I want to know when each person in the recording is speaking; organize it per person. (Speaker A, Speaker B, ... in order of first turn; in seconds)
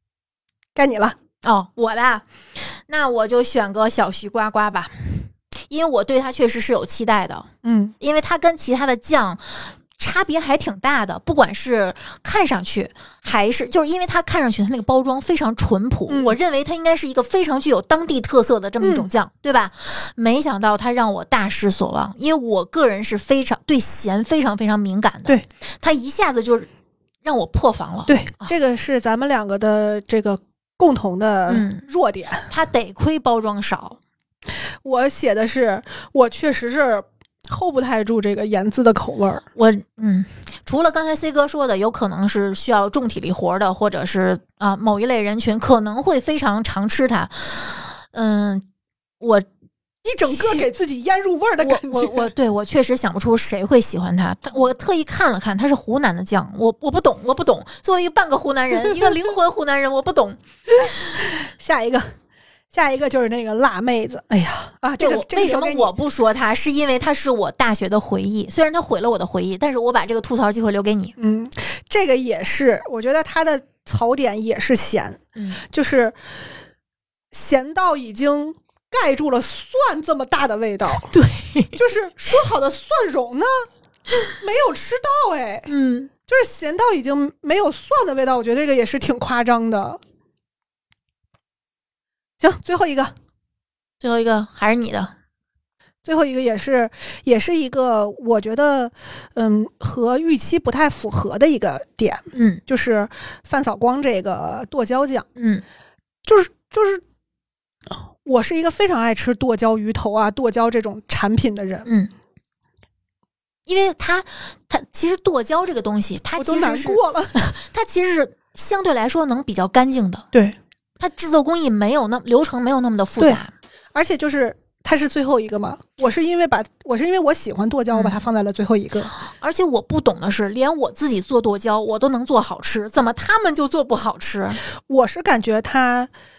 Speaker A: 0.7-1.1, 7.6-7.9, 16.1-16.4, 18.8-19.1, 28.1-32.5, 34.8-39.4, 50.0-52.3, 58.9-59.1, 60.8-62.1, 62.7-65.9, 71.2-76.2, 77.3-81.1, 81.7-83.7, 84.4-85.7, 86.3-90.0, 92.4-93.1, 96.0-105.3, 106.2-107.0, 108.2-111.9, 116.4-117.4, 123.9-129.1, 134.9-136.1
Speaker B: 1.4-7.5, 8.0-26.7, 27.2-28.5, 31.5-31.9, 32.5-34.0, 39.5-48.6, 49.2-49.5, 50.3-50.7, 51.6-60.4, 65.0-71.1, 75.3-75.6, 81.1-81.8, 85.7-86.1, 94.0-95.1, 102.3-102.6, 105.3-105.6, 111.8-112.1, 113.7-120.2, 121.0-123.5, 127.9-128.2, 129.4-134.6